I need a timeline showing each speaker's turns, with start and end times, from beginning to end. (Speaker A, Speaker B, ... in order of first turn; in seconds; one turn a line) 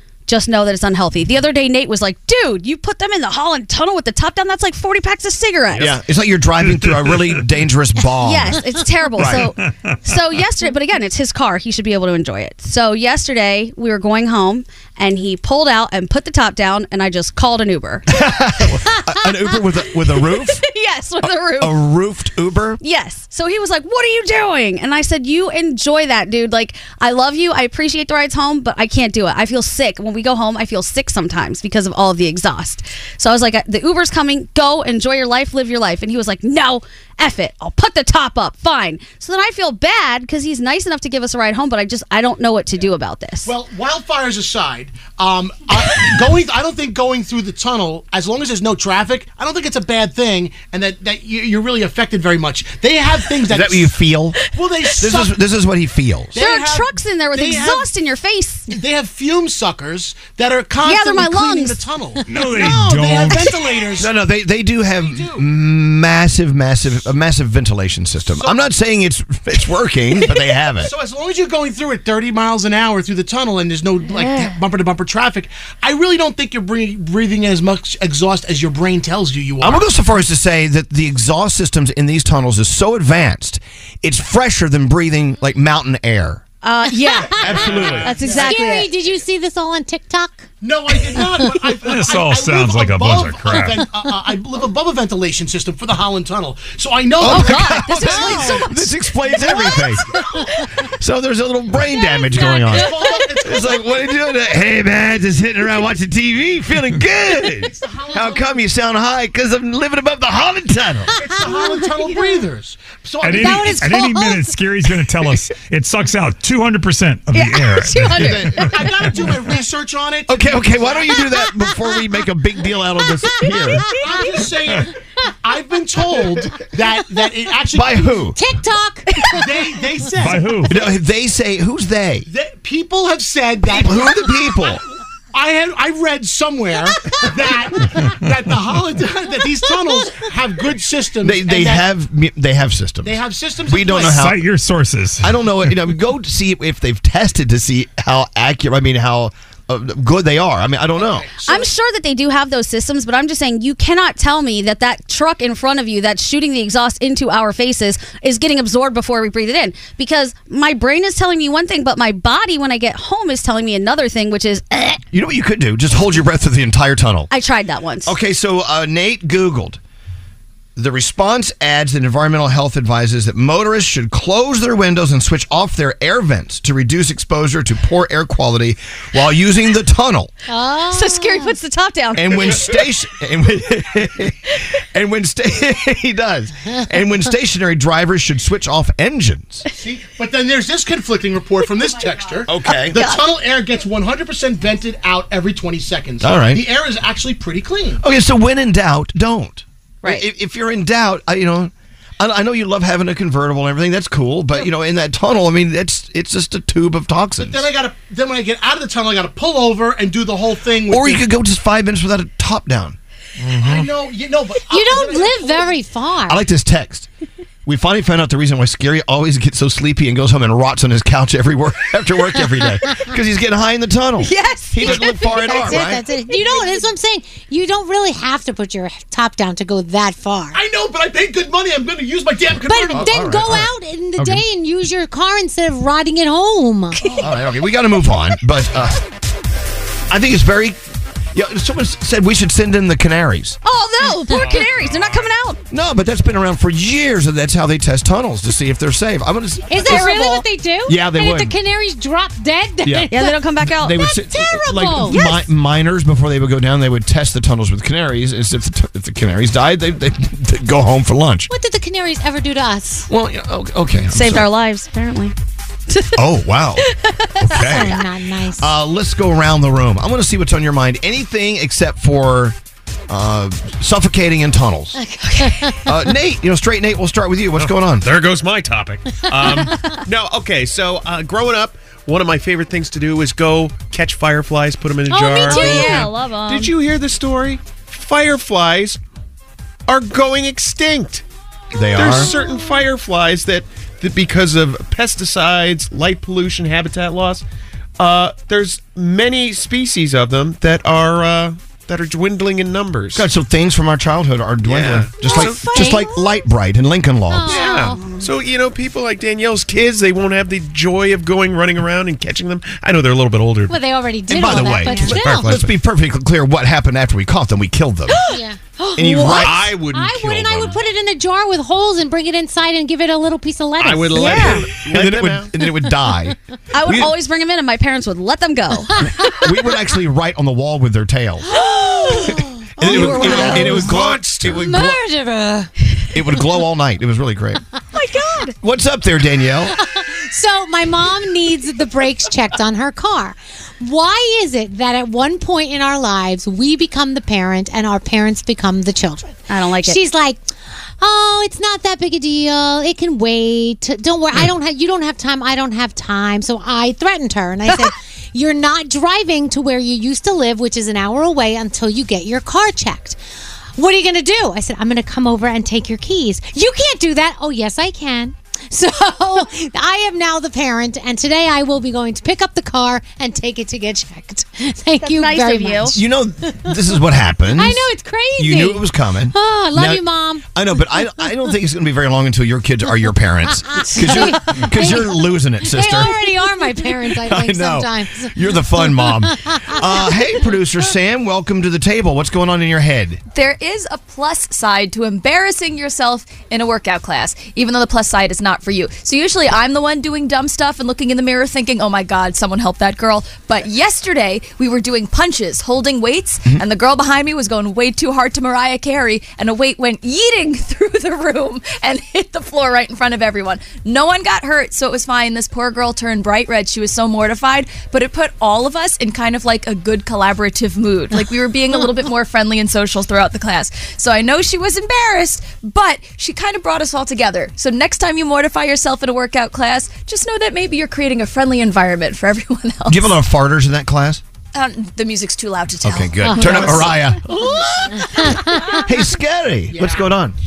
Speaker A: 0.3-6.0
Speaker B: 5.8-8.6
Speaker A: 8.2-18.1
Speaker B: 9.2-9.5
Speaker C: 9.3-9.7
Speaker B: 18.1-20.6
Speaker A: 20.2-21.8
Speaker B: 21.2-22.8
Speaker A: 22.8-43.5
Speaker D: 43.5-54.0
Speaker B: 53.5-54.4
Speaker D: 54.5-55.4
Speaker B: 55.0-56.4
Speaker D: 56.3-57.9
Speaker A: 56.4-58.7
Speaker D: 58.7-64.2
Speaker A: 60.8-61.8
Speaker C: 62.3-63.6
Speaker B: 64.0-70.9
Speaker D: 65.0-65.5
Speaker D: 68.4-68.6
Speaker D: 70.8-79.9
Speaker A: 74.2-74.5
Speaker B: 79.6-86.4
Speaker A: 86.6-88.9
Speaker E: 86.9-91.5
Speaker B: 87.4-88.2
Speaker D: 87.7-88.5
Speaker D: 90.6-98.4
Speaker C: 91.8-93.9
Speaker B: 97.2-100.1
Speaker A: 97.3-99.8
Speaker E: 98.1-98.6
Speaker B: 101.0-111.2
Speaker A: 102.0-103.3
Speaker D: 102.7-104.0
Speaker D: 107.6-108.5
Speaker D: 111.2-113.9
Speaker E: 111.2-111.7
Speaker C: 113.2-119.3
Speaker E: 113.3-114.6
Speaker A: 117.3-118.9
Speaker B: 118.1-118.7
Speaker D: 118.5-121.2
Speaker B: 120.3-123.9
Speaker E: 123.4-124.3
Speaker D: 124.0-124.9
Speaker D: 125.4-128.2
Speaker B: 127.7-128.4
Speaker E: 128.3-129.7
Speaker D: 129.4-130.7
Speaker C: 130.2-130.8
Speaker B: 130.7-132.3
Speaker D: 132.3-134.8
Speaker B: 133.7-134.8
Speaker D: 135.3-141.9
Speaker B: 141.2-144.4
Speaker D: 143.0-144.2
Speaker C: 143.9-145.4
Speaker B: 145.2-151.3
Speaker D: 150.9-151.7
Speaker A: 151.4-165.0
Speaker B: 165.1-167.3
Speaker A: 167.3-168.1
Speaker B: 168.1-169.8
Speaker B: 170.8-180.3
Speaker E: 180.5-181.6
Speaker A: 180.9-182.6
Speaker B: 182.2-189.7
Speaker D: 189.8-198.0
Speaker B: 192.5-193.0
Speaker A: 192.7-193.2
Speaker B: 196.2-196.6
Speaker B: 198.0-207.7
Speaker D: 207.4-211.3
Speaker B: 210.9-213.8
Speaker D: 213.6-215.8
Speaker E: 214.7-216.4
Speaker B: 216.3-217.1
Speaker B: 217.7-226.0
Speaker A: 224.3-225.0
Speaker E: 224.7-230.6
Speaker D: 230.5-233.2
Speaker E: 232.6-237.1
Speaker B: 232.9-234.4
Speaker A: 237.0-237.3
Speaker B: 237.2-239.0
Speaker B: 240.1-240.8
Speaker B: 241.3-243.6
Speaker A: 243.6-245.6
Speaker B: 245.7-250.1
Speaker E: 249.7-255.3
Speaker A: 249.9-250.4
Speaker B: 250.9-251.6
Speaker B: 252.8-253.1
Speaker A: 253.1-254.1
Speaker B: 253.8-261.5
Speaker A: 255.1-255.4
Speaker E: 261.5-263.1
Speaker B: 263.1-264.5
Speaker A: 264.1-265.3
Speaker A: 265.9-266.1
Speaker B: 266.2-266.9
Speaker A: 266.9-267.1
Speaker B: 267.4-268.0
Speaker E: 267.5-268.8
Speaker B: 268.6-272.6
Speaker B: 273.1-275.0
Speaker E: 274.9-275.8
Speaker A: 275.3-275.7
Speaker B: 275.9-278.1
Speaker F: 277.6-289.0
Speaker E: 279.3-280.0
Speaker A: 285.1-286.7
Speaker E: 285.4-285.9
Speaker F: 289.9-291.2
Speaker B: 291.7-292.3
Speaker F: 291.9-297.4
Speaker F: 298.0-303.3
Speaker B: 303.1-307.7
Speaker F: 304.6-305.9
Speaker E: 305.2-306.2
Speaker A: 305.4-306.0
Speaker E: 307.3-308.0
Speaker F: 307.5-313.8
Speaker E: 313.7-315.6
Speaker B: 314.3-318.2
Speaker F: 314.8-315.7
Speaker A: 318.2-319.7
Speaker E: 318.3-318.6
Speaker B: 319.0-319.7
Speaker F: 319.3-320.8
Speaker E: 319.9-324.7
Speaker F: 323.8-325.5
Speaker A: 324.1-324.6
Speaker B: 324.9-327.1
Speaker A: 326.7-329.1
Speaker B: 329.1-331.5
Speaker E: 331.5-333.9
Speaker A: 331.6-333.9
Speaker B: 332.8-335.0
Speaker F: 332.9-334.6
Speaker E: 334.4-335.7
Speaker B: 336.1-337.6
Speaker A: 337.9-338.5
Speaker B: 338.6-339.8
Speaker E: 339.7-350.4
Speaker A: 349.5-350.0
Speaker E: 351.0-363.2
Speaker E: 363.8-376.8
Speaker A: 375.1-376.0
Speaker B: 375.9-377.9
Speaker E: 377.6-381.5
Speaker B: 378.4-386.1
Speaker E: 383.7-390.4
Speaker B: 387.2-393.2
Speaker G: 393.3-433.1
Speaker B: 432.9-434.2
Speaker G: 434.5-437.6
Speaker B: 435.8-437.2
Speaker E: 436.2-436.6
Speaker E: 437.9-438.8
Speaker B: 438.9-440.4
Speaker D: 439.7-440.1